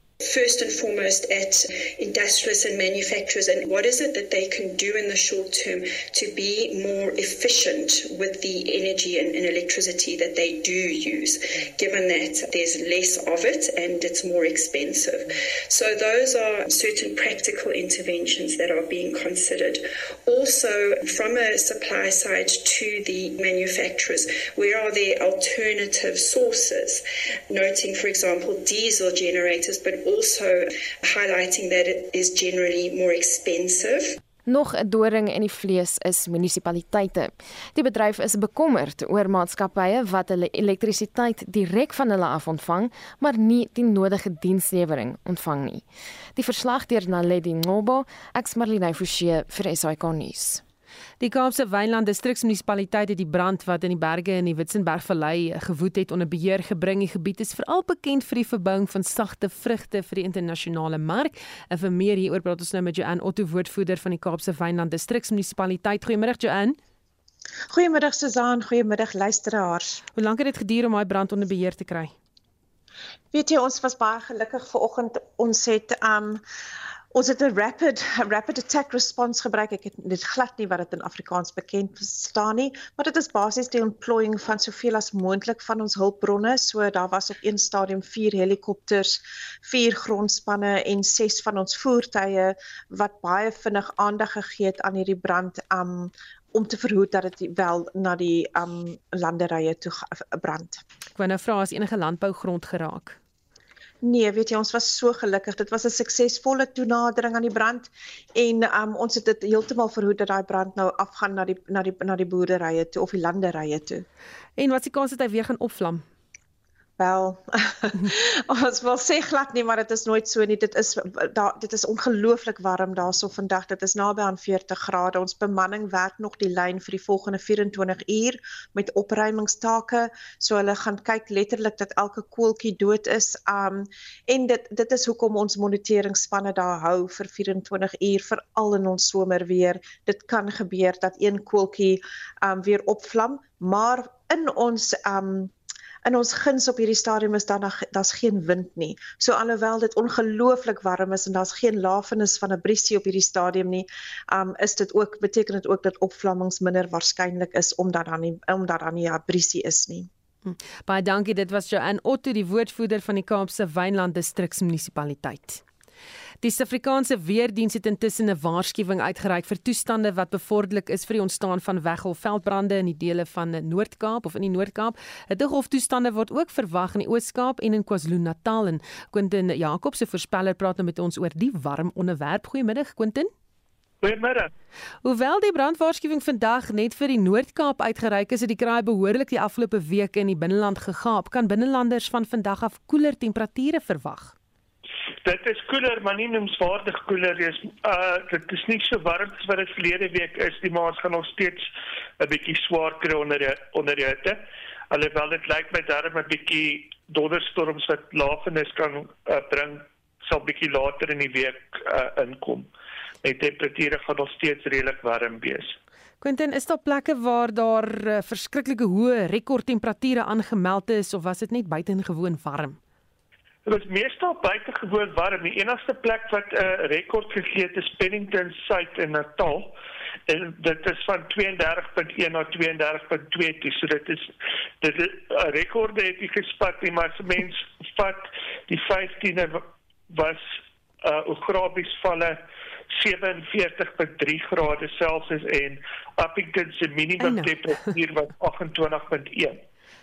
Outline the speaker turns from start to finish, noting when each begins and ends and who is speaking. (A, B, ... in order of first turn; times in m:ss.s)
0:00.2-0:34.2 A
0:34.5-0:50.6 B
0:51.2-1:06.8 C
1:07.7-1:10.0 D
1:10.1-1:12.1 C
1:13.3-1:16.4 D
1:17.1-1:40.8 D
1:41.2-1:43.2 C
1:44.0-1:54.0 D
1:54.6-1:56.0 C
1:57.0-2:25.5 D
2:26.0-2:40.1 D
2:40.4-2:45.6 C
2:46.4-3:03.3 C
3:04.0-3:04.5 E
3:05.0-3:14.3 C
3:15.2-3:21.7 E
3:22.2-3:32.7 E
3:33.2-3:35.8 E
3:36.2-3:42.8 C
3:43.7-3:49.7 E
3:50.3-4:02.4 E
4:02.9-4:09.6 E
4:07.2-4:07.5 C